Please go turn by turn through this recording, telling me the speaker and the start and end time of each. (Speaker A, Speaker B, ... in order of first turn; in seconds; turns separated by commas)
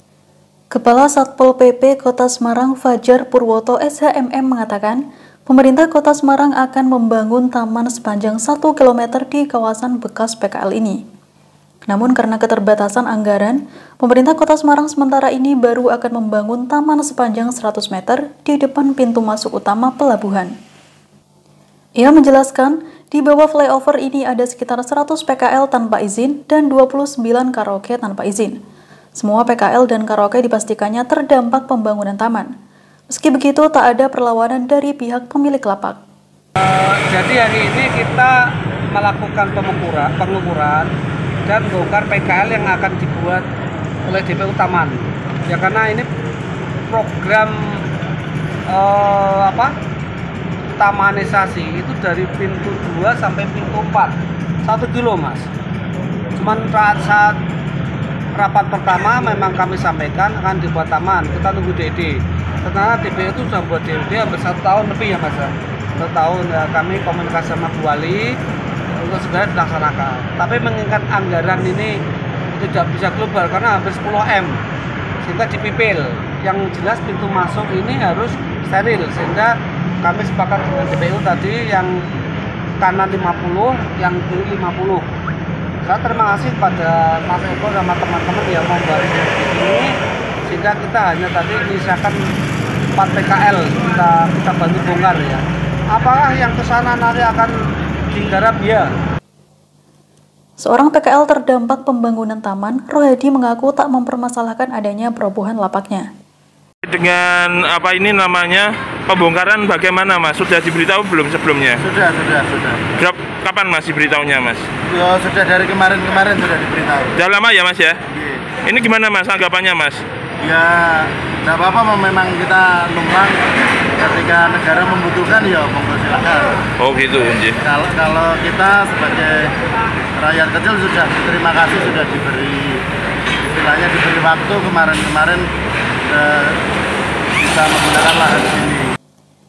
Speaker A: 0.7-11.0, Speaker A: 11.9-20.5, Speaker A: 22.0-28.6, Speaker A: 29.1-32.5, Speaker A: 33.1-36.0, Speaker B: 36.6-40.9, Speaker B: 41.5-43.5, Speaker B: 44.0-46.1, Speaker B: 46.9-47.9, Speaker B: 48.7-49.7, Speaker B: 50.8-55.5, Speaker B: 56.4-57.4, Speaker B: 58.3-68.4, Speaker B: 68.9-72.0, Speaker B: 72.5-74.6, Speaker B: 75.2-82.0, Speaker B: 82.8-85.1, Speaker B: 85.8-89.9, Speaker B: 90.5-92.2, Speaker B: 93.0-97.5, Speaker B: 98.1-98.9, Speaker A: 100.6-106.1, Speaker C: 106.8-111.8, Speaker D: 111.8-112.9, Speaker C: 113.0-114.7, Speaker D: 114.9-117.2, Speaker C: 117.2-118.0, Speaker D: 118.1-118.5, Speaker C: 118.6-120.0, Speaker D: 120.4-126.6, Speaker C: 126.8-127.6, Speaker D: 127.6-129.5, Speaker D: 130.2-132.8, Speaker D: 133.4-135.5, Speaker D: 136.1-136.6, Speaker D: 137.4-138.9